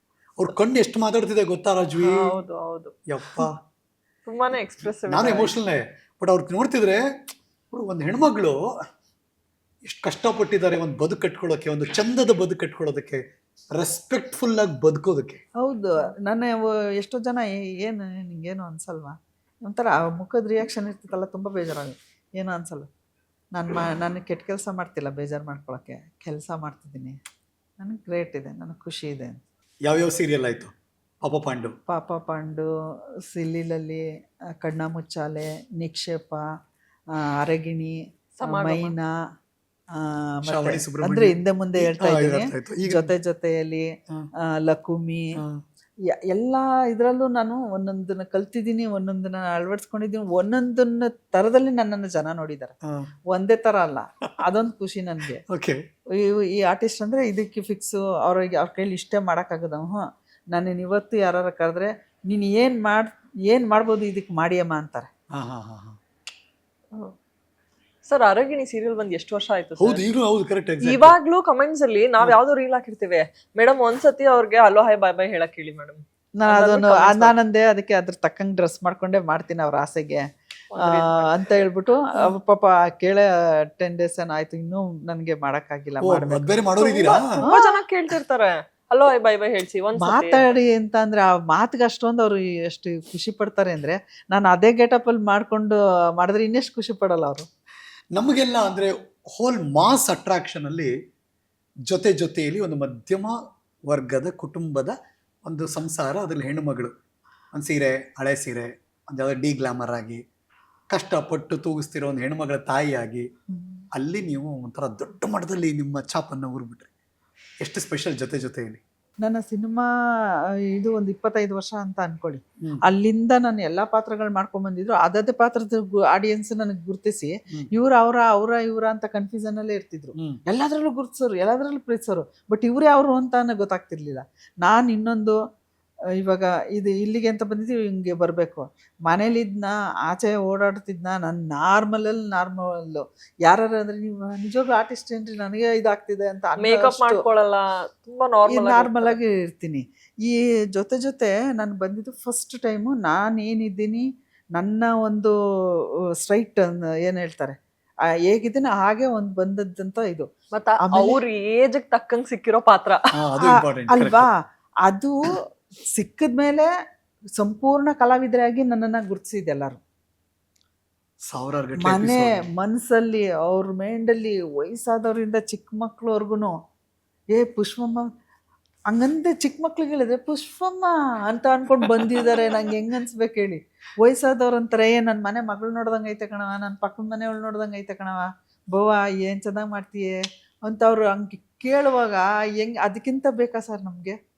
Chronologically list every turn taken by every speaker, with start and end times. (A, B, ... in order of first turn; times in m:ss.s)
0:00.4-0:02.3 A
0:02.0-0:03.4 B
0:03.1-0:03.5 A
0:04.2-0:05.5 B
0:05.1-0:07.0 A
0:07.7-0:08.6 A
0:09.8-0:13.2 A
0:13.8-0:15.4 A
0:15.6-0:19.1 C
0:19.6-0:22.9 C
0:23.5-0:27.2 C
0:27.8-0:29.4 C
0:29.8-0:31.8 A
0:31.9-0:32.7 C
0:33.3-0:34.0 C
0:34.6-0:36.4 C
0:37.4-0:39.1 C
0:38.4-0:38.9 B
0:40.0-0:43.9 C
0:40.4-0:43.1 A
0:44.5-0:45.4 C
0:46.3-0:52.7 C
0:53.3-0:55.4 C
0:55.5-0:55.8 A
0:56.2-1:05.1 C
1:05.3-1:06.0 A
1:08.0-1:10.0 B
1:09.8-1:11.2 A
1:10.8-1:17.3 B
1:16.4-1:20.2 C
1:20.7-1:21.5 B
1:20.8-1:23.2 C
1:23.8-1:26.6 C
1:26.0-1:27.4 A
1:26.8-1:30.4 B
1:27.4-1:27.8 C
1:30.0-1:37.4 C
1:38.1-1:40.9 A
1:41.9-1:43.4 A
1:43.9-1:44.9 A
1:45.4-1:46.9 A
1:47.5-1:50.2 A
1:50.9-1:53.2 A
1:53.9-1:56.9 A
1:57.6-1:58.8 A
1:59.2-1:59.8 C
2:00.8-2:15.4 C
2:10.2-2:10.4 A
2:16.2-2:27.2 C
2:26.6-2:29.2 B
2:28.5-2:34.0 C
2:34.6-2:35.3 C
2:36.2-2:37.6 C
2:38.3-2:40.3 C
2:40.5-2:43.0 B
2:40.8-2:41.2 C
2:43.1-2:44.3 A
2:43.4-2:45.4 C
2:45.9-2:46.7 C
2:47.4-2:49.8 C
2:51.3-2:52.4 A
2:51.8-2:56.5 C
2:57.3-2:58.1 C
2:58.9-3:14.2 C